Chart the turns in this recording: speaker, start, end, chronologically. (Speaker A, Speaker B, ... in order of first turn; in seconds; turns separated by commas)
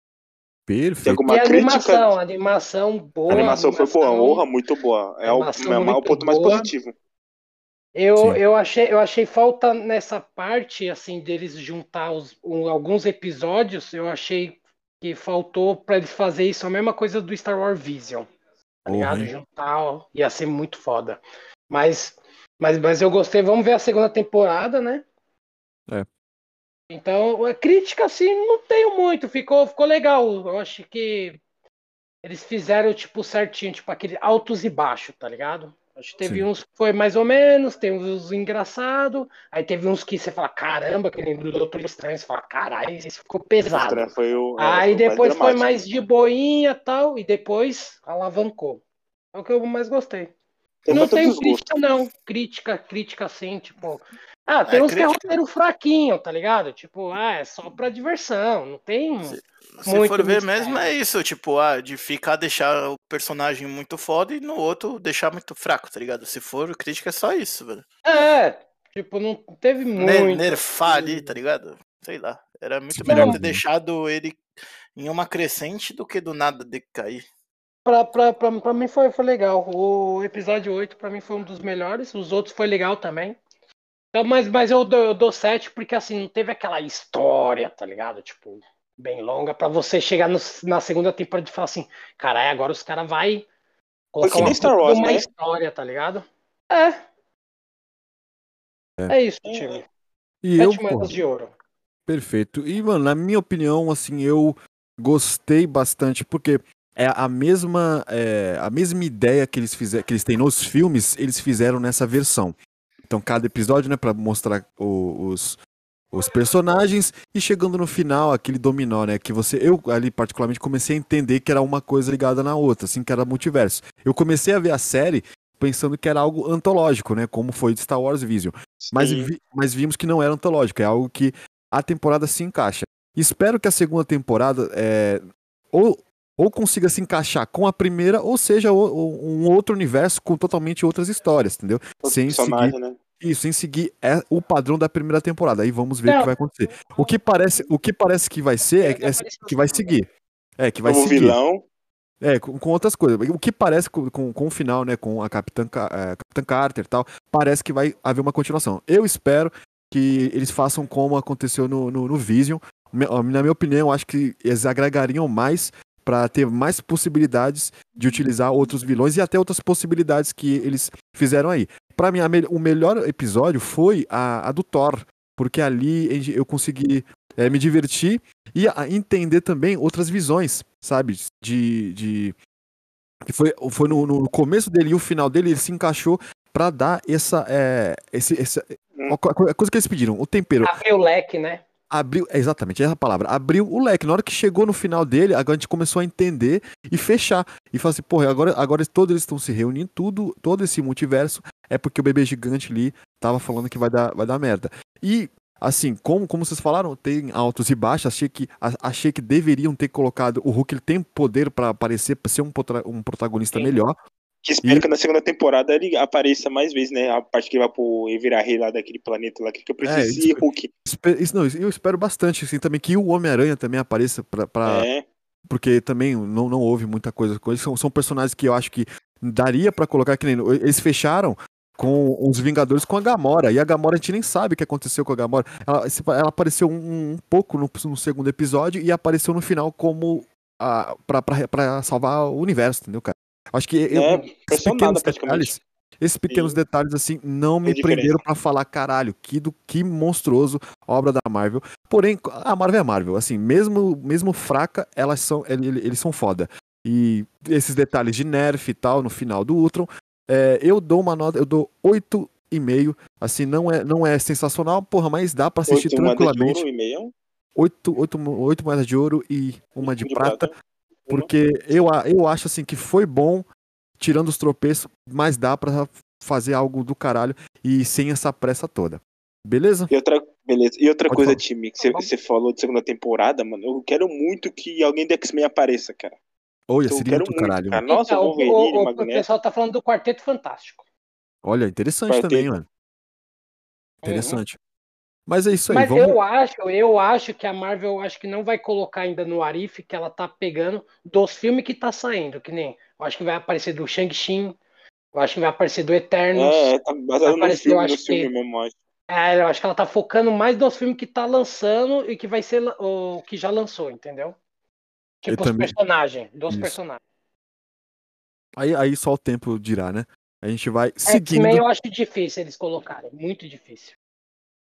Speaker A: 0.7-1.2, Speaker B: 1.0-2.1, Speaker C: 1.3-4.4, Speaker B: 3.3-6.9, Speaker C: 5.2-6.7, Speaker C: 8.0-18.2, Speaker C: 18.8-25.0, Speaker A: 18.9-19.3, Speaker C: 26.9-31.4, Speaker C: 32.2-48.8, Speaker B: 43.7-45.8, Speaker C: 49.3-50.3, Speaker B: 50.9-51.7, Speaker C: 50.9-60.9, Speaker D: 54.7-55.3, Speaker D: 59.3-67.8, Speaker C: 68.0-71.3, Speaker D: 70.0-74.4, Speaker A: 72.9-73.6, Speaker C: 73.1-73.4, Speaker D: 75.0-77.2, Speaker C: 77.8-83.4, Speaker C: 84.1-93.5, Speaker C: 94.1-97.0, Speaker B: 94.2-95.2, Speaker A: 94.3-94.7, Speaker C: 99.1-99.8, Speaker B: 99.4-99.8, Speaker A: 100.4-101.2, Speaker C: 100.6-101.5, Speaker A: 102.1-112.5, Speaker A: 113.1-115.6, Speaker A: 116.1-150.1, Speaker B: 128.8-129.3, Speaker B: 142.0-143.0, Speaker C: 146.1-146.3, Speaker C: 146.9-147.1, Speaker C: 148.8-149.9, Speaker A: 150.6-151.4, Speaker B: 150.8-151.6, Speaker A: 152.2-182.3, Speaker A: 183.2-190.8, Speaker C: 190.6-191.6, Speaker A: 191.9-213.9, Speaker B: 214.4-220.7, Speaker A: 219.8-224.9, Speaker B: 224.7-225.0, Speaker A: 225.5-266.6, Speaker B: 243.9-245.6, Speaker B: 246.3-246.6, Speaker B: 247.7-248.2, Speaker B: 265.7-267.1, Speaker A: 267.6-270.5, Speaker B: 269.8-270.5, Speaker A: 271.1-273.4, Speaker A: 274.0-279.9, Speaker B: 279.9-286.2, Speaker A: 281.1-281.4, Speaker C: 281.8-282.1, Speaker A: 286.7-287.8, Speaker B: 286.9-289.2, Speaker C: 287.9-290.8, Speaker A: 291.4-292.7, Speaker B: 292.1-292.5, Speaker C: 294.0-294.4, Speaker A: 294.0-294.6, Speaker A: 295.3-296.2, Speaker C: 295.7-304.6, Speaker C: 305.1-306.7, Speaker B: 306.3-308.7, Speaker C: 307.2-308.3, Speaker C: 309.1-314.4, Speaker C: 315.2-317.0, Speaker A: 315.3-315.7, Speaker A: 316.5-316.8, Speaker A: 318.6-321.6, Speaker C: 321.1-323.9